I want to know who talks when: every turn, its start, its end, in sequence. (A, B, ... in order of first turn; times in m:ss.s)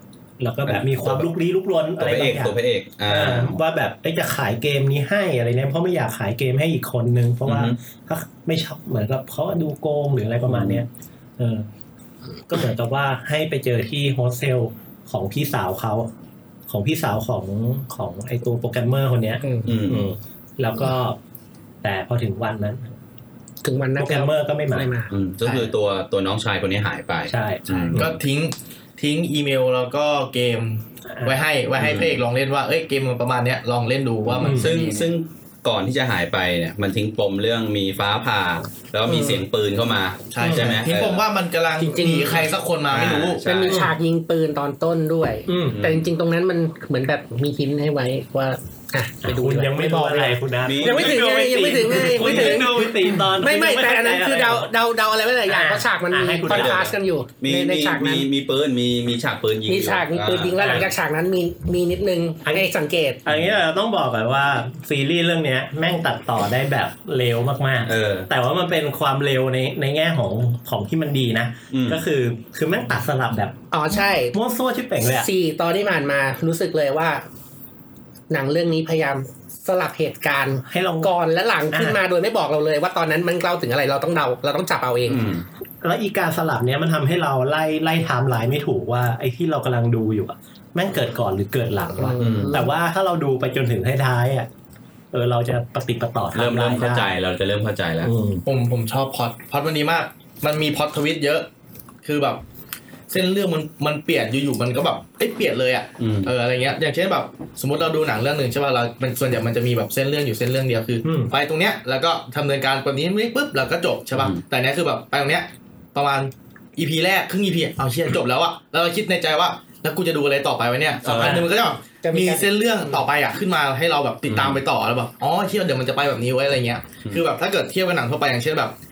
0:00.4-0:10.9 A
0:00.6-0:01.3 B
0:02.0-0:03.6 B
0:07.4-0:07.8 B
0:10.5-0:10.8 B
0:11.4-0:11.7 A
0:12.5-0:16.1 A
0:16.7-0:21.2 A
0:19.4-0:19.7 C
0:19.6-0:20.1 B
0:21.8-0:22.9 A
0:23.6-0:25.2 C
0:24.0-0:24.9 A
0:25.1-0:28.1 B
0:27.3-0:28.2 A
0:28.0-0:35.1 D
0:31.2-0:31.4 A
0:31.8-0:32.2 B
0:34.3-0:41.2 B
0:34.4-0:34.7 A
0:39.1-0:39.4 C
0:40.3-0:43.4 D
0:40.4-0:40.8 A
0:41.8-0:42.5 C
0:42.9-0:43.9 B
0:43.4-0:58.3 C
0:45.5-0:45.8 A
0:45.7-0:46.1 B
0:49.2-0:54.7 A
0:50.6-0:52.6 B
0:55.5-0:56.9 A
0:56.5-1:00.8 B
0:59.7-1:03.2 C
1:00.6-1:00.9 A
1:03.2-1:15.3 A
1:07.9-1:08.3 B
1:11.7-1:12.0 B
1:13.7-1:14.4 C
1:15.0-1:17.2 C
1:18.3-1:25.3 C
1:20.7-1:21.1 A
1:21.7-1:22.0 A
1:25.1-1:25.4 B
1:25.8-1:34.5 A
1:32.0-1:32.7 C
1:32.2-1:32.6 B
1:35.1-1:37.1 A
1:36.3-1:38.1 B
1:38.0-1:38.5 A
1:38.5-1:41.5 D
1:42.0-1:42.4 D
1:43.1-2:08.8 D
1:46.0-1:46.3 B
1:51.0-1:51.3 A
1:54.1-1:54.4 B
2:01.0-2:01.4 B
2:02.0-2:03.0 C
2:04.3-2:04.6 B